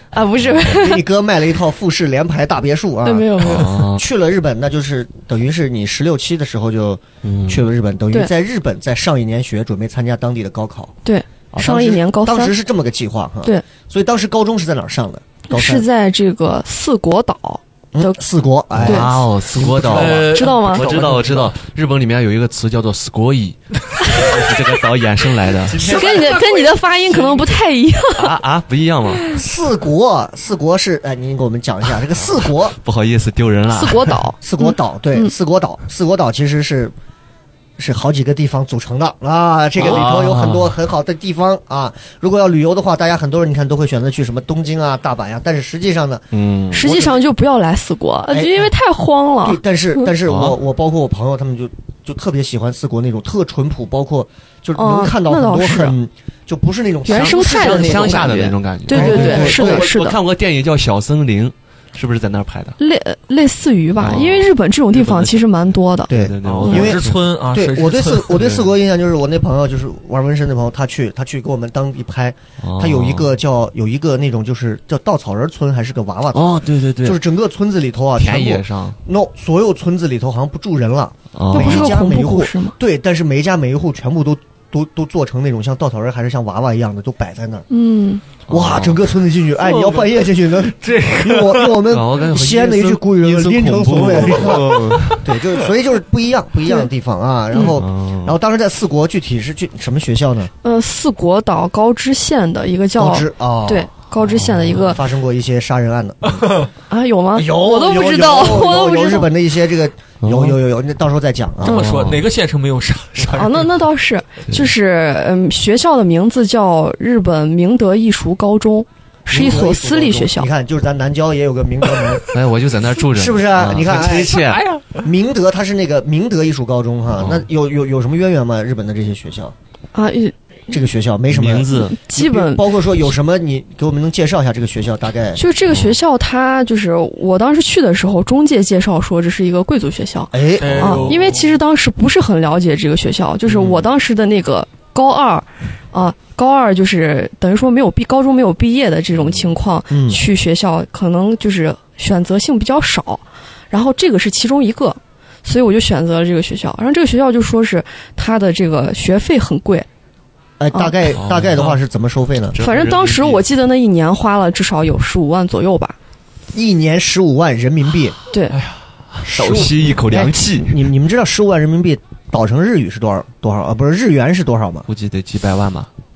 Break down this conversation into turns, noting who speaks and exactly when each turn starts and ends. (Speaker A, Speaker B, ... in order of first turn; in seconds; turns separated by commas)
Speaker A: 0.1-1.1, Speaker B: 0.5-10.9, Speaker A: 3.0-3.8, Speaker C: 3.4-4.0, Speaker C: 7.2-7.6, Speaker A: 11.0-12.5, Speaker B: 11.5-15.8, Speaker A: 15.5-18.2, Speaker B: 17.9-20.2, Speaker C: 18.7-26.0, Speaker A: 18.8-19.2, Speaker D: 19.6-21.5, Speaker A: 20.1-20.9, Speaker D: 25.7-27.6, Speaker A: 25.8-28.4, Speaker C: 28.1-29.2, Speaker B: 29.3-32.8, Speaker C: 32.8-34.2, Speaker A: 33.7-35.3, Speaker B: 34.4-36.9, Speaker B: 37.8-47.2, Speaker C: 39.8-40.7, Speaker C: 46.3-46.9, Speaker A: 46.7-50.1, Speaker B: 48.3-48.7, Speaker B: 49.4-58.4, Speaker C: 50.2-50.6, Speaker A: 54.7-56.0, Speaker A: 57.0-60.2, Speaker C: 57.1-62.8, Speaker B: 58.9-59.9, Speaker D: 59.0-59.4, Speaker A: 62.8-66.1, Speaker C: 64.0-65.4, Speaker C: 66.1-67.2, Speaker B: 66.1-87.7, Speaker D: 66.4-68.4, Speaker A: 66.6-66.9, Speaker C: 68.3-68.7, Speaker C: 72.6-73.3, Speaker C: 76.3-77.2, Speaker C: 78.2-79.0, Speaker C: 81.3-81.9, Speaker A: 81.5-82.8, Speaker A: 87.7-88.2, Speaker C: 88.5-89.0, Speaker B: 88.5-100.5, Speaker D: 89.7-90.1, Speaker D: 90.6-91.8, Speaker C: 91.9-95.2, Speaker D: 94.7-95.3, Speaker C: 97.6-98.3, Speaker A: 100.6-105.0, Speaker B: 103.0-103.9, Speaker C: 104.2-104.9, Speaker B: 104.8-106.6, Speaker A: 106.9-109.3, Speaker B: 107.3-111.9, Speaker C: 110.2-110.5, Speaker C: 111.6-112.2, Speaker D: 111.6-113.7, Speaker A: 113.3-120.5, Speaker B: 119.3-122.2, Speaker C: 122.3-124.7, Speaker B: 123.0-124.5, Speaker D: 123.8-125.0, Speaker B: 125.0-129.5, Speaker C: 127.2-127.5, Speaker A: 129.9-130.3, Speaker B: 130.7-135.4, Speaker C: 131.3-132.0, Speaker A: 131.7-132.7, Speaker A: 135.3-159.9, Speaker C: 135.7-135.9, Speaker B: 140.3-141.1, Speaker D: 140.6-141.5, Speaker C: 140.7-141.2, Speaker B: 143.5-143.8, Speaker C: 149.2-149.5, Speaker B: 149.9-150.2, Speaker B: 160.6-162.6, Speaker C: 161.2-161.7, Speaker C: 162.5-163.4, Speaker A: 162.6-165.9, Speaker B: 166.5-168.2, Speaker A: 168.3-168.6, Speaker D: 168.5-169.2, Speaker B: 169.2-174.9, Speaker C: 169.3-170.8, Speaker C: 174.9-175.9